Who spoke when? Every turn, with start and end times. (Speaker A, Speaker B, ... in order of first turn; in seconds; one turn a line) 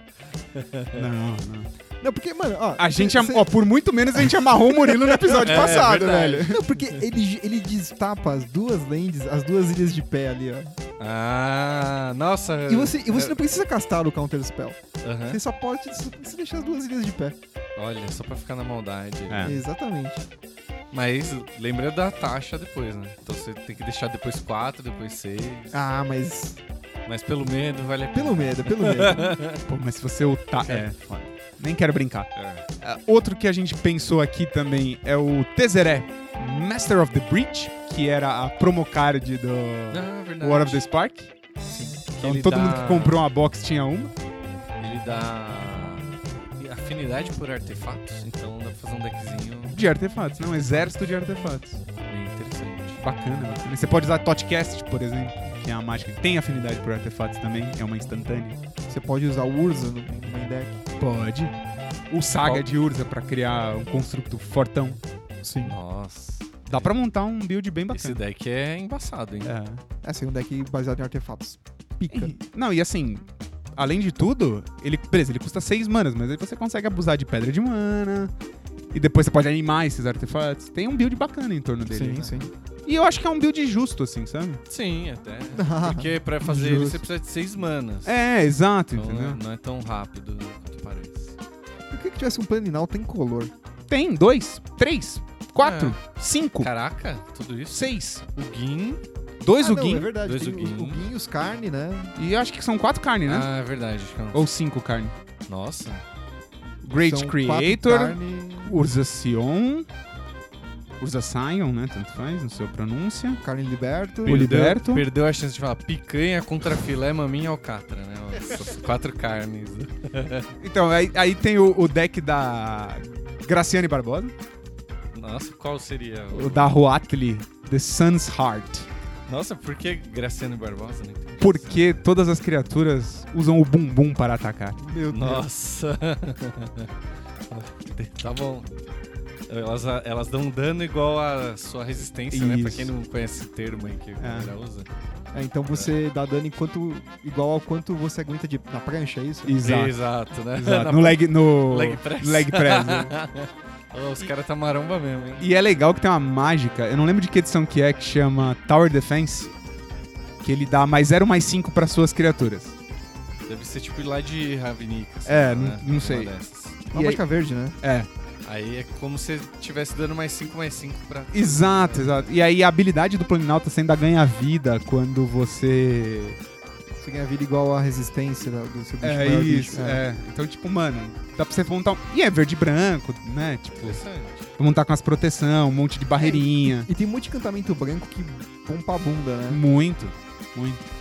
Speaker A: 0.5-1.0
Speaker B: 0.9-1.7
Speaker C: 2.0-3.5
Speaker B: 2.8-6.6
Speaker C: 4.9-10.7
Speaker A: 5.4-6.6
Speaker A: 11.0-13.4
Speaker C: 12.7-17.4
Speaker A: 15.0-15.4
Speaker A: 17.8-19.6
Speaker B: 19.3-19.6
Speaker C: 19.4-20.2
Speaker A: 20.9-25.8
Speaker C: 25.7-26.6
Speaker A: 27.1-29.6
Speaker C: 28.1-29.4
Speaker B: 29.7-41.3
Speaker A: 32.3-32.6
Speaker A: 39.9-40.8
Speaker C: 41.7-42.0
Speaker A: 42.1-43.2
Speaker B: 42.2-44.1
Speaker A: 44.8-49.8
Speaker B: 49.7-51.8
Speaker A: 52.1-53.0
Speaker B: 53.0-58.6
Speaker C: 58.9-60.8
Speaker B: 61.0-61.5
Speaker B: 62.1-65.0
Speaker C: 65.4-65.8
Speaker A: 65.6-66.9
Speaker B: 66.7-68.2
Speaker A: 67.9-69.5
Speaker B: 69.4-69.8
Speaker C: 70.0-72.3
Speaker B: 72.1-78.3
Speaker B: 78.9-84.6
Speaker C: 81.9-82.5
Speaker A: 84.7-88.1
Speaker C: 85.5-87.0
Speaker B: 88.0-89.4
Speaker A: 88.9-91.4
Speaker C: 91.9-93.5
Speaker B: 93.9-96.7
Speaker A: 95.6-96.0
Speaker A: 96.6-99.0
Speaker B: 97.7-98.2
Speaker B: 99.4-100.1
Speaker C: 99.6-102.2
Speaker A: 100.2-101.0
Speaker B: 102.2-103.5
Speaker A: 103.2-104.5
Speaker B: 104.3-105.1
Speaker A: 105.5-106.0
Speaker B: 106.8-109.9
Speaker C: 106.9-108.8
Speaker B: 111.0-113.4
Speaker C: 113.4-114.5
Speaker A: 114.2-120.5
Speaker B: 114.2-115.0
Speaker B: 120.6-124.3
Speaker A: 125.1-126.8
Speaker B: 126.3-128.9
Speaker A: 129.3-131.9
Speaker B: 131.4-134.8
Speaker C: 134.8-135.4
Speaker A: 135.1-136.9
Speaker A: 137.5-138.7
Speaker A: 139.5-144.9
Speaker B: 142.3-142.9
Speaker B: 144.2-144.5
Speaker C: 145.3-149.6
Speaker B: 149.4-150.0
Speaker A: 149.6-155.5
Speaker B: 150.5-153.1
Speaker B: 155.4-159.5
Speaker B: 160.4-162.8
Speaker A: 163.5-166.8
Speaker B: 165.3-166.3
Speaker B: 166.8-167.2
Speaker C: 166.9-167.8
Speaker B: 167.8-168.1
Speaker A: 168.4-172.3
Speaker B: 171.3-176.4
Speaker C: 177.0-180.0
Speaker B: 179.0-184.0
Speaker A: 183.8-184.5
Speaker B: 184.6-186.9
Speaker C: 186.2-189.6
Speaker B: 189.5-190.8